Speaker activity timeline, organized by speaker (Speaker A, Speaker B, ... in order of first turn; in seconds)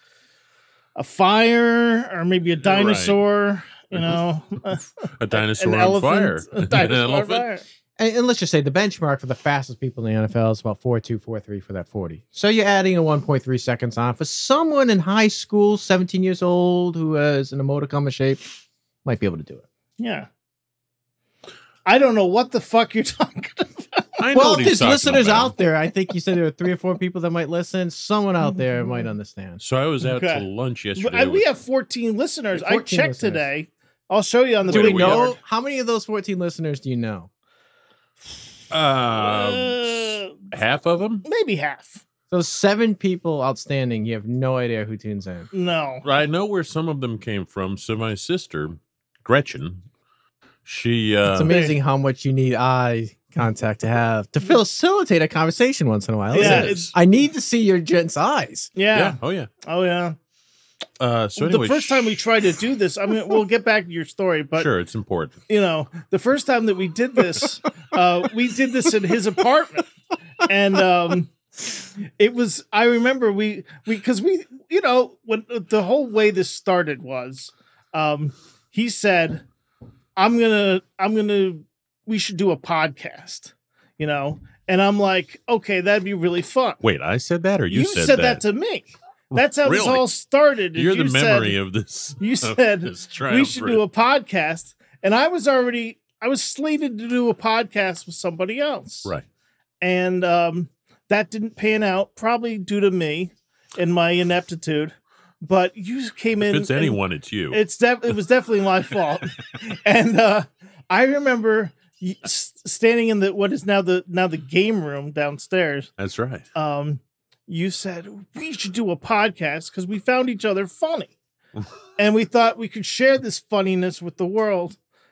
Speaker A: 1.0-7.6, 20.0-20.3, 21.9-24.1, 30.0-30.4, 31.0-35.4, 39.2-40.4, 41.2-42.0, 45.5-46.0, 51.5-51.8, 56.3-56.9, 58.8-60.2, 61.4-64.7, 65.5-69.9, 70.4-71.3, 72.2-79.4, 80.2-86.8, 87.7-91.6, 92.2-99.1, 99.8-107.0, 107.5-115.9, 116.5-121.1, 122.0-124.8
Speaker B: 2.6-3.2, 3.9-4.2, 5.2-7.5, 24.2-25.6, 29.6-31.4, 34.7-35.3, 38.7-41.2, 46.0-49.8, 50.6-51.5, 56.4-56.9, 58.9-59.5, 61.0-62.2, 64.6-65.4, 86.8-88.4, 89.3-90.1, 90.8-93.8, 106.4-107.6, 116.0-116.5
Speaker C: 8.0-18.4, 19.1-19.6, 24.3-29.6, 32.5-33.5, 34.7-37.3, 42.3-45.5, 51.3-58.7